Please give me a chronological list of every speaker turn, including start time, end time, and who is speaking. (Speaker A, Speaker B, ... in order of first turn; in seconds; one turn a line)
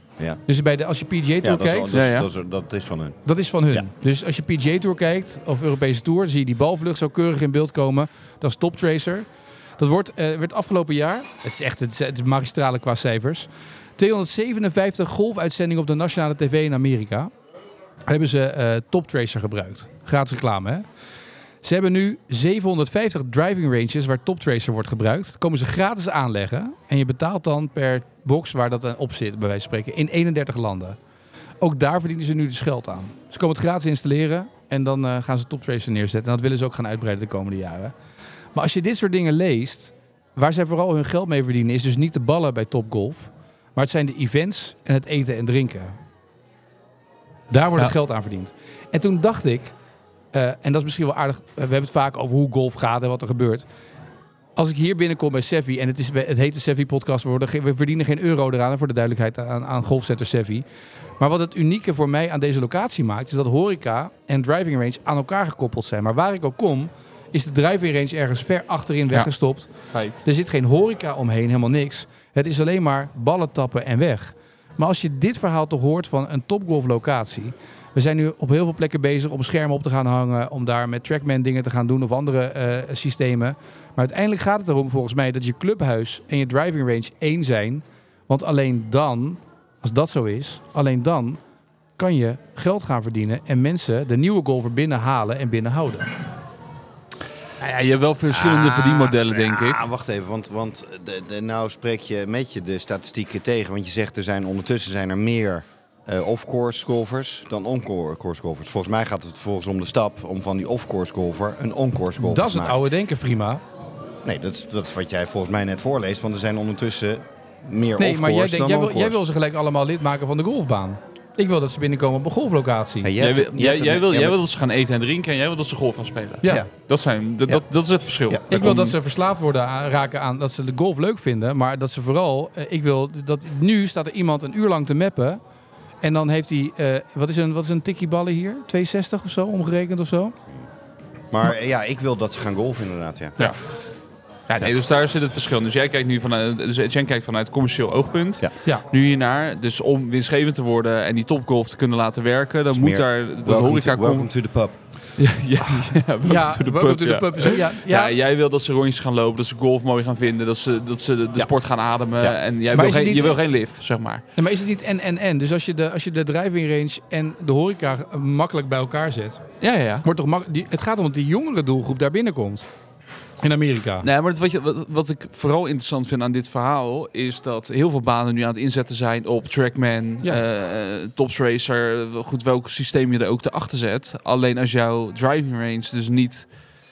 Speaker A: 0.5-1.9
Speaker B: 1.4-3.2
Speaker C: 1.9-2.3
Speaker A: 3.3-9.3
Speaker A: 9.8-17.3
Speaker A: 18.1-20.9
Speaker A: 21.6-31.0
Speaker A: 31.6-37.9
Speaker A: 38.5-46.0
Speaker A: 47.5-49.7
Speaker A: 50.3-53.6
Speaker A: 54.6-60.6
Speaker A: 61.2-69.7
Speaker C: 69.9-70.2
Speaker A: 70.2-91.4
Speaker A: 92.0-96.1
Speaker C: 97.6-99.8
Speaker B: 98.3-112.8
Speaker A: 112.2-113.6
Speaker B: 114.2-119.2
Speaker A: 118.0-123.1
Speaker B: 123.0-124.4
Speaker C: 123.2-129.0
Speaker B: 128.3-128.6
Speaker A: 128.5-135.4
Speaker A: 136.0-140.3
Speaker B: 141.3-143.4
Speaker C: 144.5-154.3
Speaker B: 152.7-154.8
Speaker C: 155.2-164.2
Speaker A: 155.7-158.2
Speaker A: 162.7-163.4
Speaker A: 164.4-169.4
Speaker C: 169.6-170.1
Speaker A: 170.0-172.7
Speaker A: 173.4-174.1
Speaker C: 174.0-186.5